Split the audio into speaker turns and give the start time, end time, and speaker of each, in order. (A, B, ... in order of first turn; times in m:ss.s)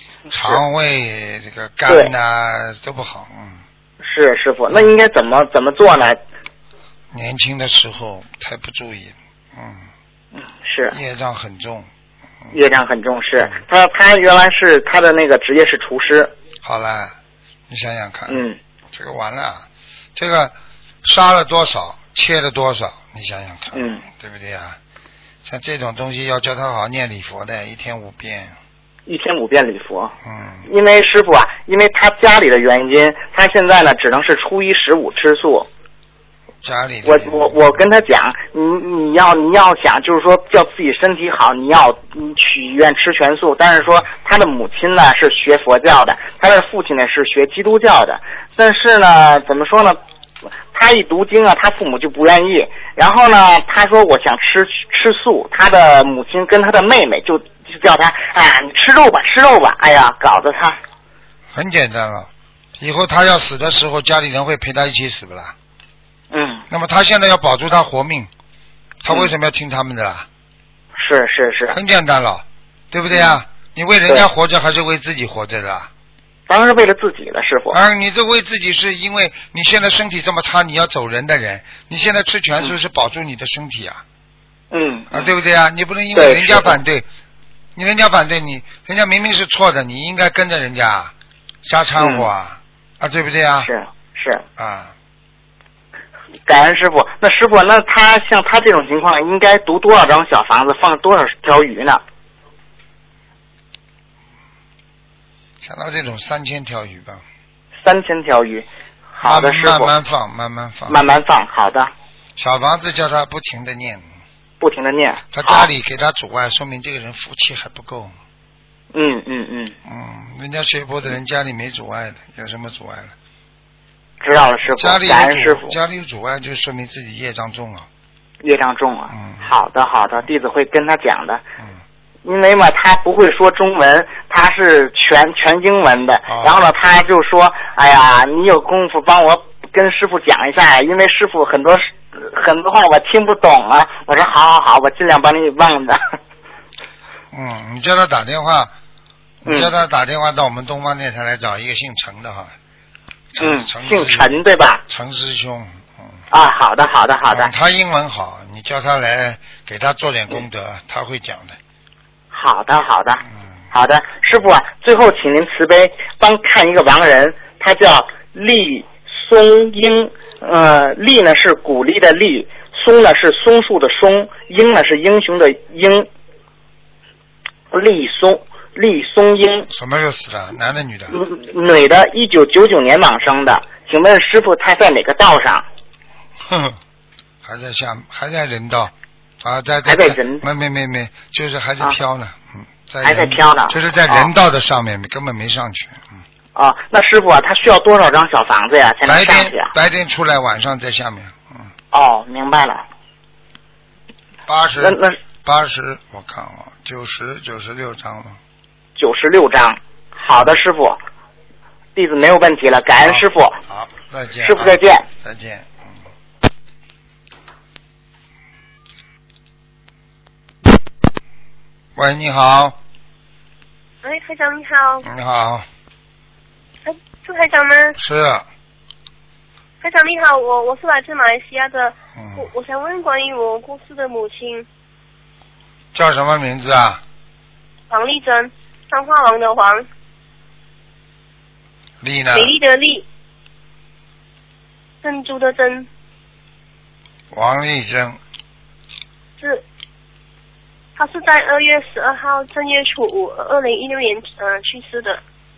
0:00.3-0:03.6 A
0:00.3-0:00.6 B
0:04.0-0:06.2 B
0:07.1-0:09.9 A
0:10.4-0:11.0 B
0:10.9-0:11.9 A
0:12.5-0:16.3 B
0:16.6-0:17.2 A
0:17.7-0:24.8 A
0:18.3-0:18.6 B
0:23.7-0:24.0 B
0:25.4-0:28.6 A
0:29.1-0:30.1 B
0:30.2-0:30.7 A
0:30.7-0:35.7 B
0:36.6-0:37.6 A
0:37.0-0:50.0 B
0:50.7-1:00.8 B
1:01.5-1:05.6 A
1:06.3-1:06.6 B
1:06.7-1:08.3 A
1:09.0-1:10.3 A
1:11.0-1:11.8 B
1:11.7-1:15.9 A
1:13.1-1:13.4 B
1:16.5-1:17.8 B
1:17.7-1:24.0 A
1:24.7-1:25.3 B
1:25.1-1:27.1 A
1:26.2-1:26.8 B
1:27.8-1:31.1 A
1:31.6-1:33.7 A
1:32.0-1:32.3 B
1:33.6-1:34.4 B
1:34.6-1:34.9 A
1:36.5-1:42.0 B
1:45.6-1:47.2 A
1:47.8-1:49.9 B
1:49.2-1:51.0 A
1:50.9-1:51.9 B
1:52.4-1:54.0 A
1:54.6-1:55.7 B
1:55.3-1:58.2 A
1:58.9-1:59.8 B
1:59.8-2:03.1 A
2:04.2-2:05.8 B
2:04.7-2:07.9 A
2:08.4-2:11.4 B
2:09.1-2:09.5 A
2:12.2-2:26.0 B
2:16.3-2:16.6 A
2:27.3-2:28.7 A
2:29.4-2:32.6 A
2:29.5-2:29.7 B
2:33.3-2:36.2 A
2:33.4-2:34.8 B
2:36.3-2:37.5 B
2:37.3-2:41.6 A
2:42.3-2:56.1 B
2:57.7-2:59.7 B
2:59.7-3:01.2 A
3:01.1-3:05.6 B
3:06.4-3:06.8 A
3:07.4-3:16.2 A
3:09.9-3:10.4 B
3:13.0-3:14.3 B
3:16.6-3:19.7 B
3:19.0-3:21.7 A
3:21.9-3:22.8 B
3:24.5-3:28.4 A
3:24.8-3:25.2 B
3:29.0-3:31.0 B
3:32.0-3:33.6 B
3:33.0-3:36.0 A
3:34.4-3:35.1 B
3:42.0-3:42.8 A
3:44.0-3:45.1 C
3:45.0-3:45.7 A
3:46.8-3:48.0 C
3:48.0-3:48.4 A
3:49.8-3:54.7 C
3:52.2-3:52.5 A
3:55.9-3:57.0 A
3:57.9-3:59.9 C
4:02.0-4:02.6 A
4:02.3-4:03.0 C
4:05.0-4:05.9 C
4:07.3-4:08.2 A
4:11.0-4:15.2 C